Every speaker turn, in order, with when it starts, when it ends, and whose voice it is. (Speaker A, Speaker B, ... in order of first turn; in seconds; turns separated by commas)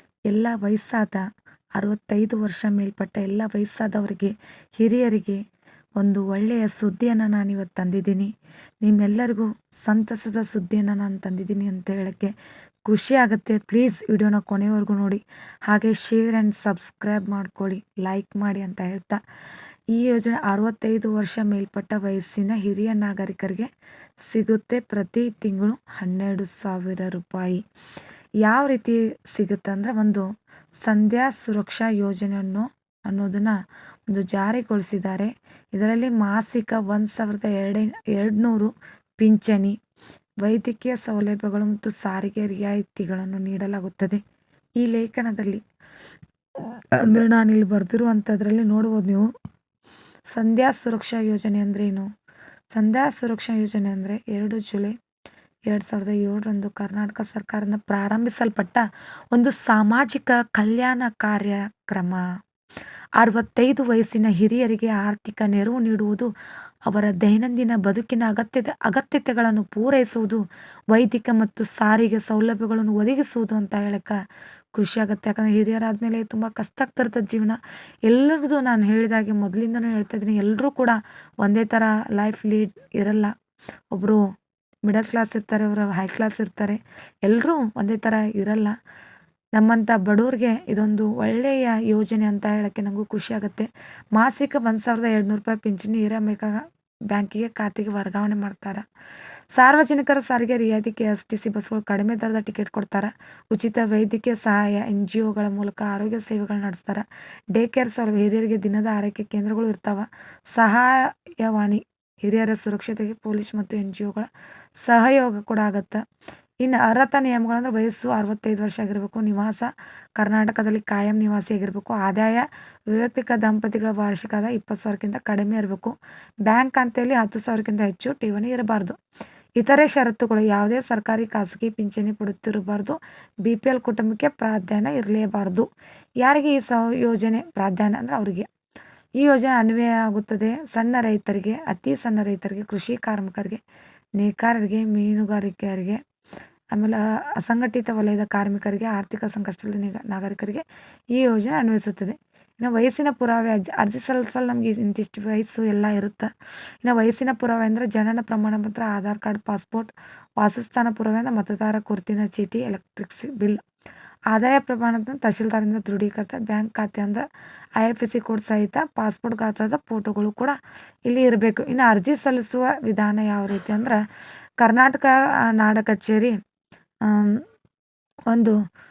Speaker A: 0.3-1.2, Speaker A: 1.8-5.4, Speaker A: 6.0-12.3, Speaker A: 12.9-19.2, Speaker A: 19.9-23.7, Speaker A: 24.2-27.6, Speaker A: 28.4-30.3, Speaker A: 30.8-33.6, Speaker A: 34.1-39.8, Speaker A: 40.4-44.2, Speaker A: 44.8-45.6, Speaker A: 46.6-49.3, Speaker A: 50.3-52.1, Speaker A: 52.7-54.9, Speaker A: 55.7-62.2, Speaker A: 63.2-66.3, Speaker A: 66.9-74.2, Speaker A: 74.7-83.3, Speaker A: 83.9-84.3, Speaker A: 84.8-88.8, Speaker A: 89.5-98.8, Speaker A: 99.5-114.3, Speaker A: 114.8-116.0, Speaker A: 116.6-126.0, Speaker A: 126.5-129.0, Speaker A: 129.6-135.7, Speaker A: 136.2-138.5, Speaker A: 139.2-143.6, Speaker A: 144.2-146.0, Speaker A: 146.7-156.3, Speaker A: 156.8-163.6, Speaker A: 164.3-167.2, Speaker A: 167.8-170.6, Speaker A: 171.1-174.0, Speaker A: 174.6-176.3, Speaker A: 177.1-177.4, Speaker A: 178.3-178.6